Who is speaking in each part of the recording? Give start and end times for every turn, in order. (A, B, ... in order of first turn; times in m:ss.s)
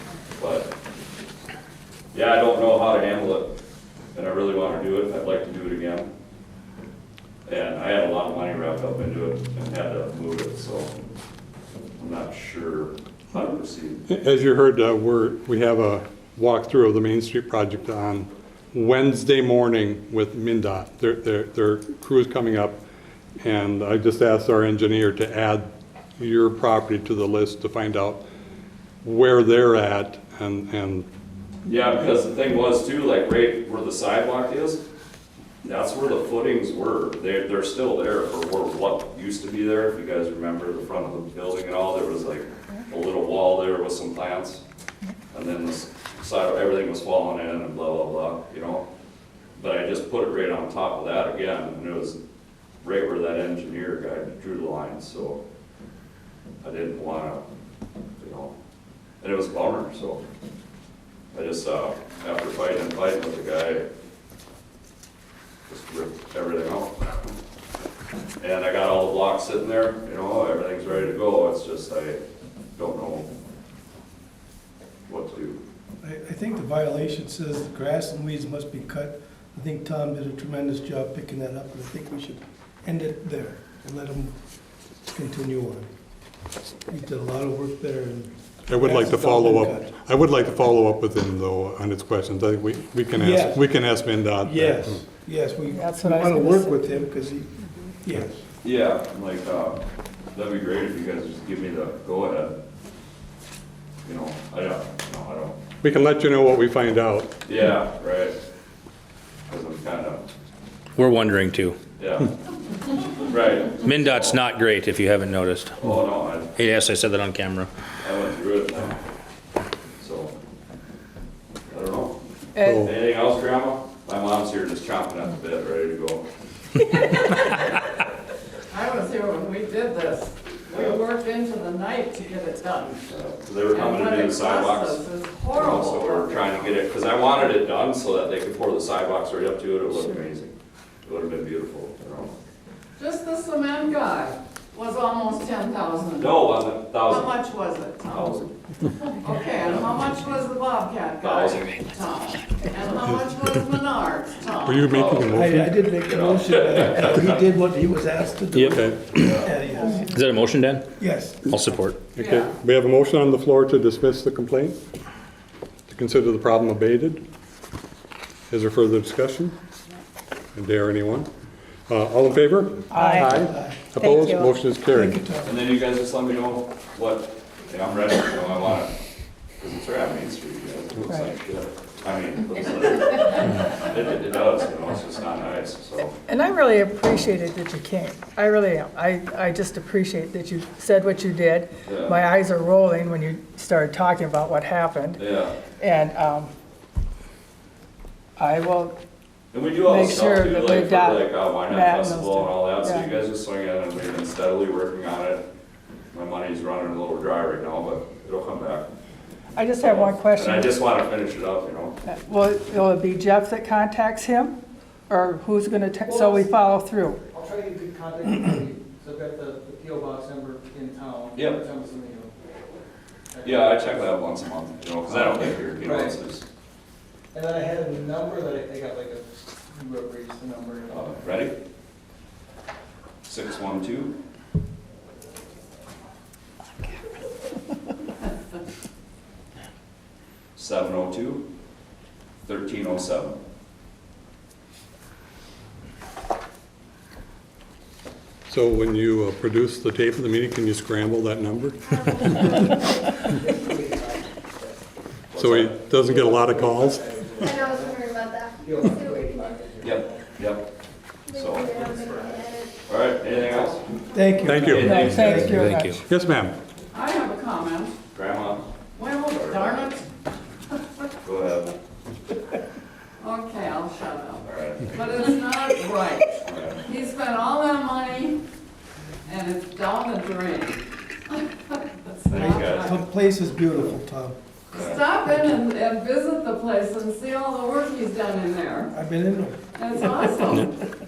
0:00.4-0:00.7 A
0:02.1-0:03.5 A
0:04.1-0:06.1 A
0:07.4-0:10.9 A
0:12.0-0:14.0 A
0:14.1-0:22.8 B
0:23.4-0:28.2 B
0:29.0-0:31.0 B
0:31.6-0:34.8 A
0:35.6-0:44.6 A
0:45.3-0:48.8 A
0:49.6-0:52.2 A
0:52.8-0:55.4 A
0:56.6-0:57.4 A
0:58.2-0:58.5 A
0:59.2-1:00.2 A
1:01.3-1:03.9 A
1:05.7-1:07.1 A
1:08.4-1:12.2 A
1:12.8-1:13.3 A
1:15.1-1:15.6 A
1:16.0-1:24.3 C
1:25.1-1:25.9 C
1:26.9-1:29.9 C
1:28.7-1:34.9 B
1:33.2-1:33.7 C
1:34.4-1:38.4 C
1:35.7-1:36.8 D
1:38.6-1:39.8 A
1:40.3-1:42.5 A
1:44.0-1:45.6 A
1:45.8-1:47.3 B
1:47.4-1:48.3 A
1:49.5-1:50.2 A
1:51.0-1:51.8 E
1:52.0-1:52.3 A
1:53.2-1:54.4 A
1:53.8-1:55.8 E
1:55.8-1:56.5 A
1:56.6-1:57.7 E
1:58.0-1:59.0 A
2:00.0-2:00.3 A
2:01.7-2:06.2 A
2:02.5-2:02.9 D
2:02.6-2:02.9 B
2:08.7-2:13.0 F
2:10.7-2:11.0 A
2:13.1-2:15.0 A
2:13.7-2:16.8 F
2:15.5-2:20.5 A
2:21.0-2:22.4 A
2:23.0-2:28.3 F
2:26.2-2:27.3 A
2:28.1-2:28.5 A
2:29.0-2:35.0 F
2:29.6-2:30.0 A
2:31.2-2:31.8 A
2:34.6-2:35.9 B
2:34.9-2:37.4 A
2:35.3-2:40.1 C
2:38.5-2:39.3 E
2:38.7-2:39.1 B
2:39.2-2:39.5 A
2:39.7-2:40.1 D
2:40.1-2:40.9 E
2:41.0-2:41.4 C
2:41.4-2:42.0 E
2:42.2-2:44.8 B
2:42.2-2:42.5 F
2:45.9-2:47.2 B
2:48.5-2:49.6 B
2:50.5-2:51.3 B
2:51.9-2:55.2 B
2:52.9-2:54.5 D
2:52.9-2:53.8 C
2:54.9-2:55.6 C
2:55.4-2:58.9 A
2:59.6-3:06.2 A
3:06.3-3:15.2 D
3:11.8-3:12.2 A
3:15.1-3:15.6 A
3:15.8-3:16.5 D
3:18.4-3:19.0 D
3:19.5-3:25.4 A
3:19.8-3:23.1 D
3:26.1-3:28.9 A
3:29.5-3:30.9 D
3:29.8-3:32.0 A
3:32.0-3:34.6 D
3:35.1-3:37.2 D
3:36.1-3:36.5 G
3:37.3-3:42.3 G
3:41.3-3:41.6 A
3:43.3-3:43.8 G
3:43.4-3:46.4 A
3:45.2-3:46.2 G
3:47.3-3:51.1 G
3:50.9-3:51.5 A
3:53.2-3:54.2 A
4:00.6-4:01.4 A
4:02.4-4:03.4 A
4:08.5-4:12.7 B
4:11.9-4:13.2 H
4:13.3-4:14.8 G
4:15.3-4:15.7 A
4:15.3-4:17.6 B
4:15.5-4:18.1 G
4:17.4-4:19.6 H
4:18.6-4:20.2 G
4:19.8-4:20.7 A
4:21.3-4:22.7 H
4:21.3-4:21.8 A
4:21.7-4:22.5 G
4:22.8-4:23.9 A
4:24.1-4:25.5 C
4:24.1-4:24.7 H
4:24.4-4:25.0 B
4:24.5-4:25.6 A
4:24.7-4:26.0 D
4:25.0-4:26.0 E
4:26.0-4:26.5 B
4:26.9-4:27.9 F
4:28.1-4:28.7 A
4:29.0-4:30.0 F
4:29.3-4:29.9 A
4:31.2-4:31.8 A
4:33.2-4:38.4 F
4:34.4-4:35.4 A
4:36.4-4:36.8 A
4:39.2-4:43.0 F
4:42.3-4:43.0 A
4:42.3-4:44.4 C
4:44.7-4:48.9 F
4:44.7-4:45.0 A
4:48.9-4:49.6 C
4:49.7-4:50.8 F